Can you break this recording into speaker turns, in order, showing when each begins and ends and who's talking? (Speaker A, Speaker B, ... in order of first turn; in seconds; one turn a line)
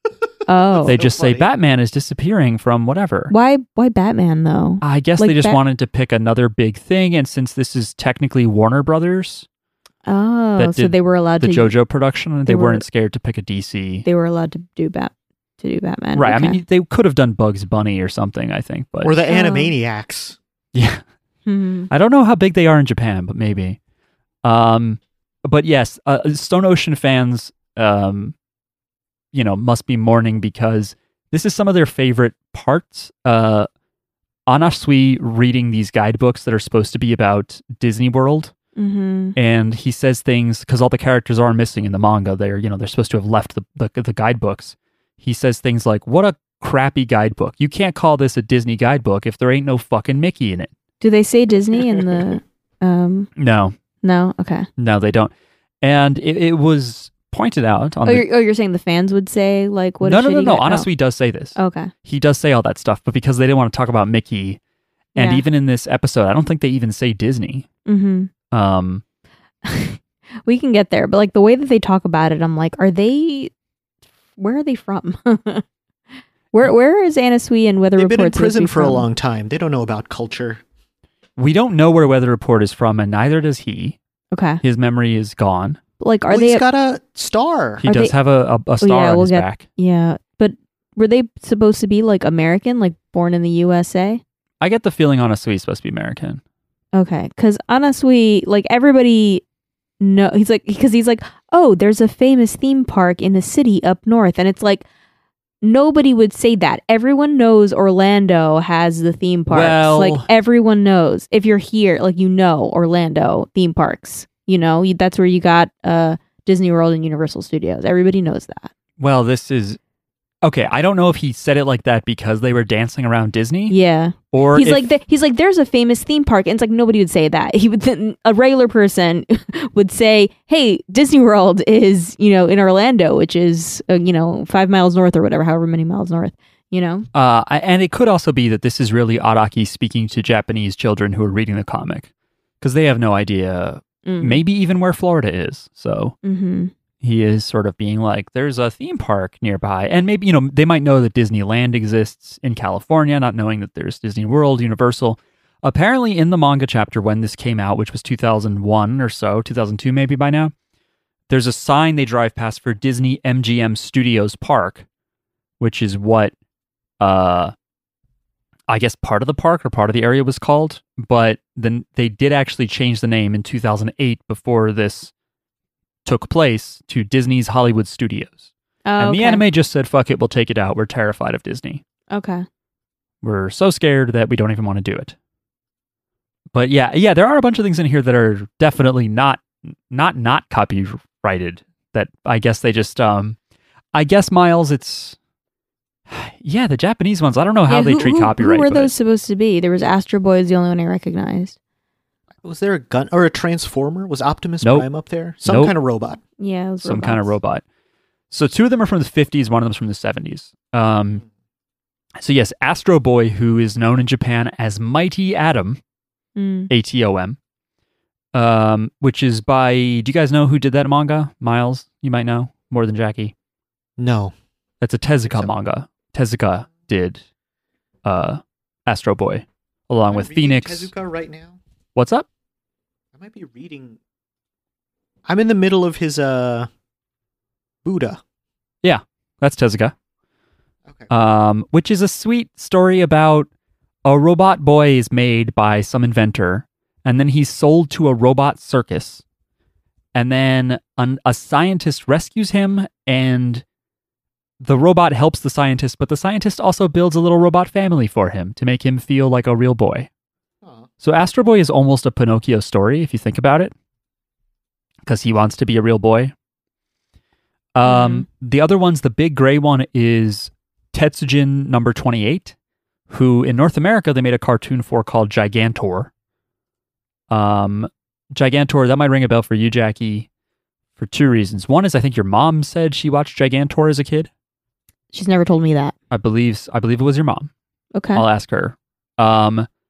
Speaker A: 0.5-1.0
Speaker B: 0.7-1.5
Speaker C: 0.8-3.3
Speaker A: 3.3-5.6
Speaker C: 4.8-9.5
Speaker A: 10.1-11.7
Speaker C: 10.6-14.1
Speaker A: 12.5-12.8
Speaker A: 14.1-16.6
Speaker C: 16.1-19.1
Speaker B: 19.0-20.4
Speaker A: 19.3-19.7
Speaker C: 20.7-21.0
Speaker A: 21.5-21.9
Speaker C: 21.9-23.8
Speaker C: 24.4-28.3
Speaker C: 29.3-33.7
Speaker C: 34.5-38.5
Speaker A: 38.8-39.4
Speaker C: 39.4-50.7
Speaker A: 51.0-53.3
Speaker C: 53.4-53.8
Speaker A: 54.0-54.7
Speaker C: 54.8-58.2
Speaker A: 58.1-60.9
Speaker C: 60.0-64.6
Speaker A: 61.6-61.9
Speaker A: 65.2-65.5
Speaker C: 65.2-67.7
Speaker A: 67.9-68.3
Speaker C: 68.5-69.0
Speaker A: 69.7-73.5
Speaker A: 74.4-75.7
Speaker A: 76.5-79.1
Speaker B: 78.0-80.6
Speaker C: 81.4-84.0
Speaker A: 84.3-84.6
Speaker C: 84.6-85.8
Speaker A: 86.0-86.6
Speaker B: 86.3-87.8
Speaker C: 87.8-89.7
Speaker A: 87.8-88.1
Speaker A: 88.8-94.2
Speaker C: 94.6-96.4
Speaker A: 97.0-99.4
Speaker A: 100.0-104.9
Speaker A: 105.6-118.7
Speaker C: 109.5-110.3
Speaker C: 119.0-119.8
Speaker C: 120.4-123.8
Speaker A: 123.7-137.1
Speaker C: 124.3-124.9
Speaker C: 137.1-142.1
Speaker C: 142.6-146.2
Speaker A: 144.1-144.4
Speaker A: 146.2-146.7
Speaker C: 147.0-160.5
Speaker C: 161.3-164.8
Speaker C: 165.6-166.3
Speaker C: 167.0-167.5
Speaker C: 168.7-175.1
Speaker C: 176.1-181.8
Speaker A: 178.9-179.4
Speaker A: 182.1-182.5
Speaker C: 183.2-185.2
Speaker C: 186.5-193.4
Speaker C: 193.9-195.2
Speaker C: 196.1-198.9
Speaker A: 197.7-201.6
Speaker B: 202.4-206.2
Speaker C: 204.6-204.9
Speaker C: 205.4-205.7
Speaker A: 206.4-207.3
Speaker C: 206.8-207.6
Speaker C: 208.3-211.2
Speaker C: 212.2-215.8
Speaker A: 216.4-216.7
Speaker C: 216.7-217.4
Speaker C: 218.3-223.3
Speaker B: 224.0-224.3
Speaker C: 224.8-227.2
Speaker C: 228.0-230.9
Speaker B: 230.1-231.6
Speaker C: 232.0-232.3
Speaker B: 233.2-234.0
Speaker B: 235.3-236.7
Speaker B: 237.8-238.2
Speaker C: 238.8-239.9
Speaker C: 241.1-243.5
Speaker C: 244.1-249.2
Speaker C: 250.2-253.7
Speaker C: 254.6-260.1
Speaker C: 261.0-263.7
Speaker C: 265.1-266.3
Speaker C: 267.8-272.6
Speaker A: 267.9-268.3
Speaker C: 273.1-276.1
Speaker C: 277.3-280.3
Speaker C: 281.0-284.3
Speaker A: 285.1-285.9
Speaker C: 286.1-287.5
Speaker A: 287.9-288.2
Speaker C: 288.1-289.7